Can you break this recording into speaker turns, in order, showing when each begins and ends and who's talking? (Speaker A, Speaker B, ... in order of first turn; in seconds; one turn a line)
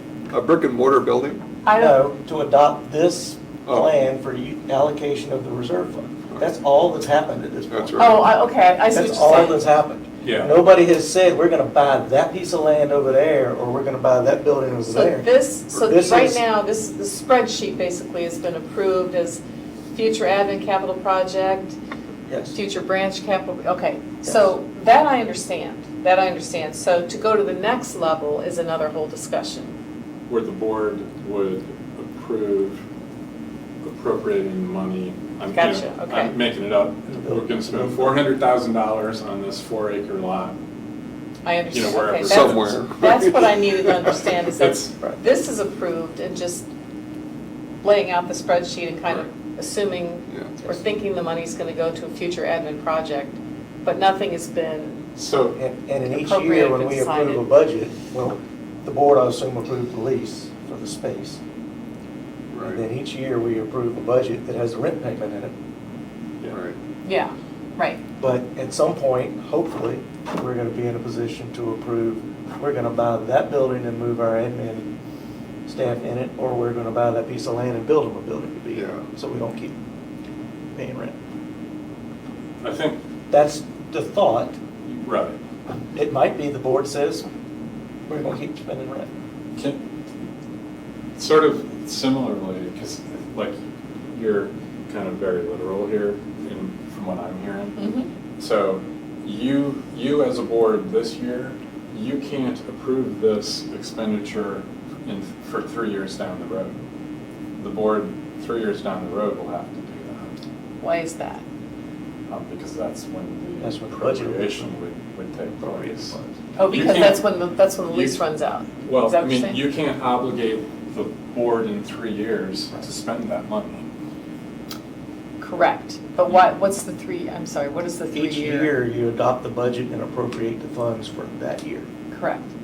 Speaker A: 0.3-1.4
Speaker B: 1.6-2.0
Speaker C: 1.8-8.3
Speaker A: 3.6-3.9
Speaker A: 7.7-8.2
Speaker B: 8.0-9.6
Speaker C: 8.9-16.4
Speaker D: 10.2-10.6
Speaker B: 14.8-19.4
Speaker B: 19.9-21.8
Speaker C: 22.3-22.6
Speaker B: 22.5-29.8
Speaker D: 30.3-32.8
Speaker D: 33.8-40.5
Speaker B: 35.5-36.3
Speaker C: 37.1-38.2
Speaker B: 41.4-46.7
Speaker D: 41.7-42.9
Speaker A: 42.2-44.0
Speaker D: 44.6-44.9
Speaker B: 47.8-55.0
Speaker D: 55.1-55.6
Speaker C: 55.5-61.4
Speaker B: 56.1-57.5
Speaker A: 62.5-62.8
Speaker C: 62.6-65.5
Speaker A: 66.5-66.8
Speaker B: 67.0-68.0
Speaker C: 68.2-74.9
Speaker C: 75.7-79.7
Speaker A: 78.7-79.0
Speaker C: 80.7-81.2
Speaker D: 82.6-83.0
Speaker C: 83.3-84.5
Speaker D: 84.8-85.4
Speaker C: 85.9-87.2
Speaker C: 88.1-89.1
Speaker D: 91.2-93.6
Speaker D: 94.1-97.8
Speaker B: 97.8-98.1
Speaker D: 98.4-106.8
Speaker D: 107.6-110.3
Speaker B: 110.8-111.4
Speaker D: 112.3-116.1
Speaker C: 113.6-114.7
Speaker C: 115.6-116.3
Speaker B: 116.5-119.6
Speaker D: 116.7-117.2
Speaker D: 117.9-118.2
Speaker D: 118.8-123.9
Speaker B: 125.4-128.7
Speaker C: 128.1-131.9
Speaker B: 132.1-132.5